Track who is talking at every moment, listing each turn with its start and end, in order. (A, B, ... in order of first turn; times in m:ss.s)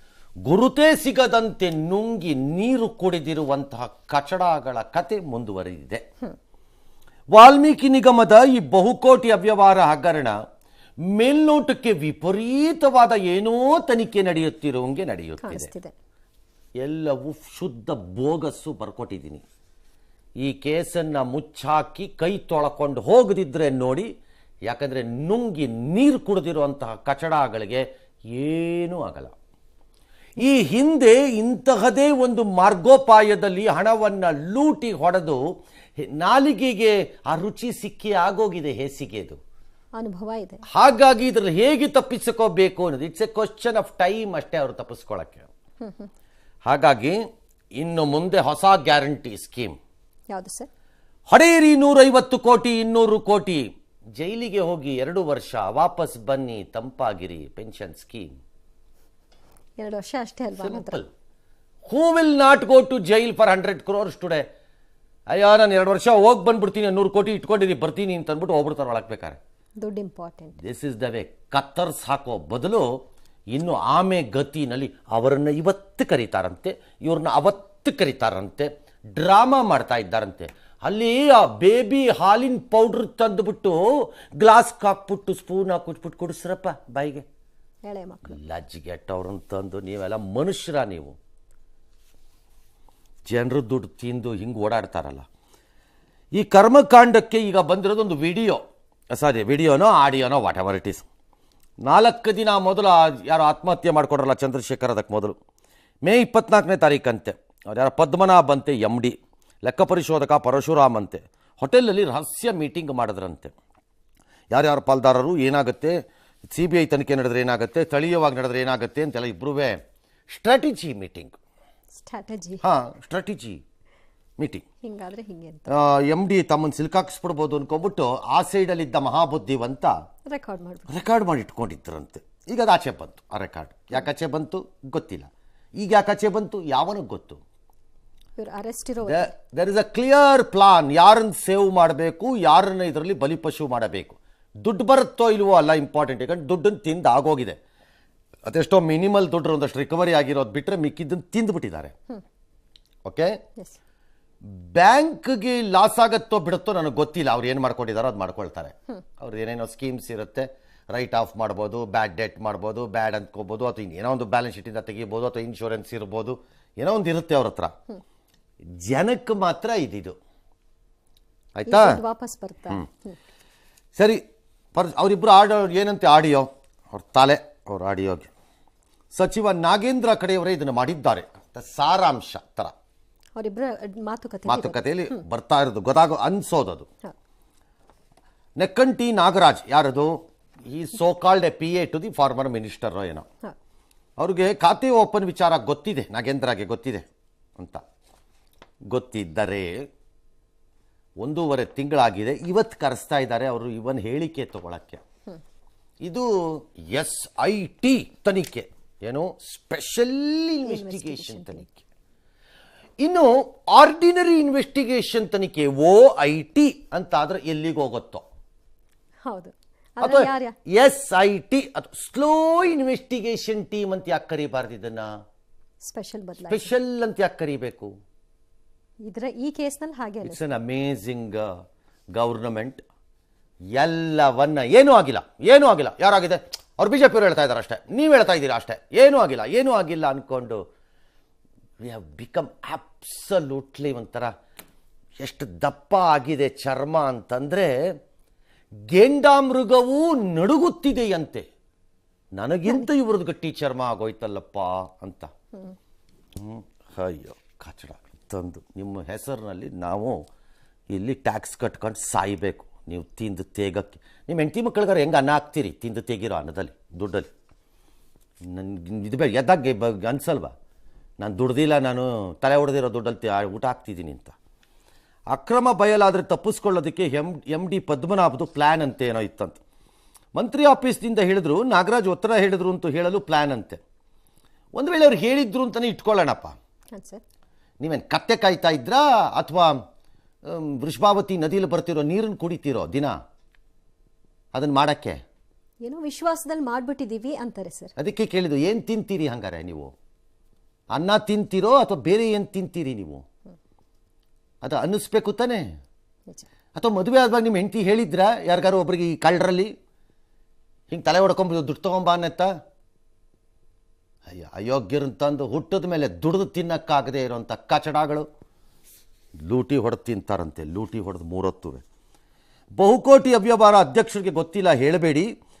0:00.4-0:06.0 A
0:07.3-0:10.3 A
0:11.1-0:15.7 A
0:15.4-0:15.9 B
0:16.8-0:19.4 A
0:20.4-0:24.1 A
0:24.7-0:29.3 A
0:30.4-0:35.4 A
0:36.0-0:39.4 A
0:40.0-0:40.6 B
0:40.7-0:45.5 A
0:46.6-0:47.2 A
0:47.8-0:49.8 A
0:50.3-0:50.7 B
0:51.3-0:53.6 A
0:54.2-0:58.3 A
0:59.8-1:01.0 B
1:00.6-1:01.1 A
1:01.9-1:04.4 A
1:05.3-1:09.4 A
1:09.8-1:10.6 B
1:10.6-1:12.8 A
1:13.5-1:27.2 A
1:27.8-1:28.4 B
1:28.3-1:31.2 A
1:33.3-1:35.2 A
1:36.3-1:41.0 A
1:41.8-1:45.3 A
1:46.0-1:53.5 A
1:54.5-1:56.0 A
1:56.5-1:59.8 A
2:00.3-2:01.4 A
2:01.9-2:02.6 B
2:02.6-2:03.6 A
2:04.4-2:04.6 A
2:04.8-2:05.7 B
2:05.7-2:09.9 A
2:10.3-2:10.9 B
2:10.9-2:17.4 A
2:18.4-2:19.3 B
2:19.0-2:27.6 A
2:28.4-2:31.9 A
2:33.0-2:33.3 A
2:34.6-2:47.7 A
2:48.8-2:50.2 A
2:51.6-2:52.0 A
2:51.7-2:53.1 B
2:54.7-2:58.3 A
2:59.1-3:02.7 A
3:03.4-3:05.2 B
3:04.5-3:06.9 A
3:08.6-3:13.2 A
3:14.2-3:17.0 A
3:18.9-3:19.7 A
3:21.2-3:25.0 A
3:26.9-3:31.8 A
3:30.7-3:31.7 B
3:33.0-3:38.2 A
3:39.2-3:40.5 B
3:40.0-3:45.1 A
3:45.8-3:46.7 B
3:46.5-3:47.9 A
3:49.0-3:50.4 B
3:50.2-3:51.4 A
3:52.1-3:52.8 A
3:53.7-4:00.6 A
4:01.8-4:04.3 A
4:05.2-4:07.7 A
4:08.9-4:11.4 A
4:12.4-4:15.3 A
4:16.4-4:20.2 A
4:20.9-4:27.3 A
4:28.5-4:30.5 A
4:31.2-4:34.3 A
4:35.3-4:39.6 A
4:40.3-4:43.8 A
4:44.8-4:46.5 A
4:46.9-4:47.2 B
4:47.8-4:49.7 A
4:50.5-4:53.1 A
4:54.5-4:55.2 A
4:55.8-4:57.9 B
4:58.0-4:59.9 A
5:00.9-5:03.2 A
5:04.6-5:05.6 A
5:06.7-5:09.7 A
5:10.9-5:12.5 A
5:14.3-5:18.2 A
5:19.4-5:21.8 A
5:22.8-5:25.3 A